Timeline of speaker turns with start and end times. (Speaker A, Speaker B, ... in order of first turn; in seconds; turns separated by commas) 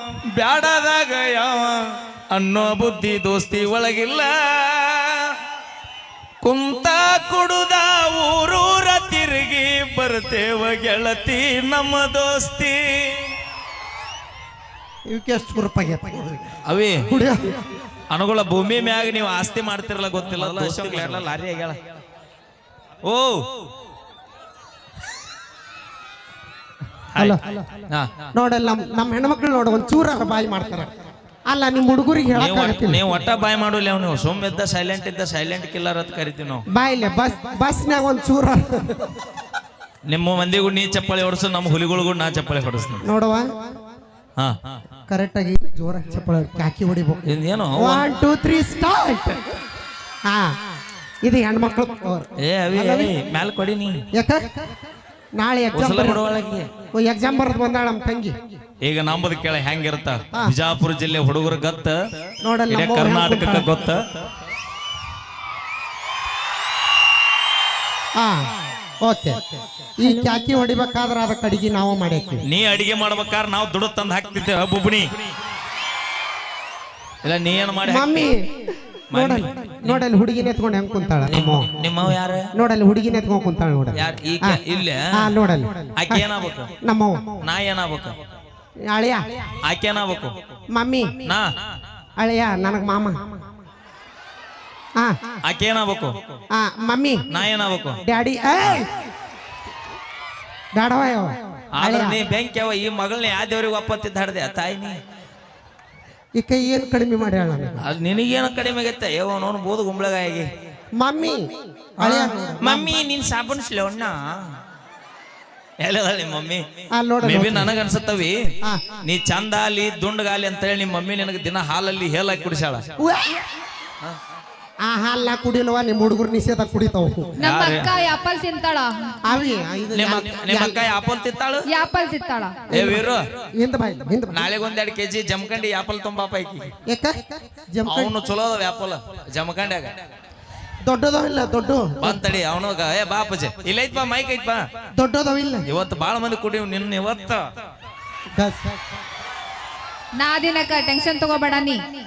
Speaker A: 0.3-1.8, Speaker A: 2.3-5.3, Speaker A: 6.4-13.3, Speaker B: 15.1-16.4, Speaker A: 16.7-17.0, Speaker B: 17.1-17.6, Speaker A: 18.1-21.8, Speaker A: 23.1-23.4, Speaker A: 27.1-27.4, Speaker B: 27.1-27.7, Speaker A: 27.9-28.2, Speaker B: 28.3-30.9, Speaker B: 31.5-33.0, Speaker A: 32.3-36.6, Speaker B: 36.7-39.1, Speaker A: 40.1-43.0, Speaker B: 43.0-43.8, Speaker A: 44.4-44.8, Speaker B: 45.1-49.4, Speaker A: 47.3-48.0, Speaker B: 50.3-50.5, Speaker B: 51.2-53.1, Speaker A: 52.4-54.0, Speaker B: 54.1-54.6, Speaker B: 55.4-56.2, Speaker A: 55.7-56.7, Speaker B: 56.9-58.6, Speaker A: 58.8-62.0, Speaker B: 62.4-63.7, Speaker A: 62.7-64.0, Speaker B: 69.0-72.4, Speaker A: 72.5-75.0, Speaker A: 77.2-78.3, Speaker B: 77.9-81.9, Speaker A: 79.1-80.0, Speaker A: 81.3-82.4, Speaker B: 82.5-84.6, Speaker A: 84.0-85.0, Speaker B: 85.1-86.3, Speaker A: 86.0-86.7, Speaker B: 86.8-87.4, Speaker A: 87.4-88.2, Speaker B: 88.9-89.4, Speaker A: 89.7-90.5, Speaker B: 90.7-91.2, Speaker B: 92.2-93.4, Speaker B: 95.0-95.4, Speaker A: 95.5-96.2, Speaker B: 96.5-97.3, Speaker A: 97.3-98.0, Speaker B: 98.0-98.9, Speaker B: 100.7-102.2, Speaker A: 101.7-105.0, Speaker B: 106.4-107.8, Speaker A: 107.8-110.5, Speaker B: 111.0-111.4, Speaker B: 112.0-112.9, Speaker A: 112.0-114.2, Speaker A: 115.8-116.6, Speaker B: 116.9-117.7, Speaker A: 117.2-118.3, Speaker B: 118.7-119.0, Speaker A: 119.1-122.8, Speaker B: 123.0-123.4, Speaker B: 124.8-127.3, Speaker C: 127.4-128.9, Speaker A: 127.4-127.9, Speaker B: 129.3-130.8, Speaker A: 129.9-131.7, Speaker C: 131.7-132.5, Speaker B: 132.7-133.0, Speaker A: 132.7-133.2, Speaker B: 133.6-134.5, Speaker A: 134.3-136.7, Speaker B: 136.9-138.2, Speaker A: 137.9-139.9, Speaker B: 140.8-142.2, Speaker A: 142.0-144.6, Speaker B: 144.9-145.6, Speaker A: 145.7-147.4, Speaker B: 148.3-148.8, Speaker C: 150.2-151.8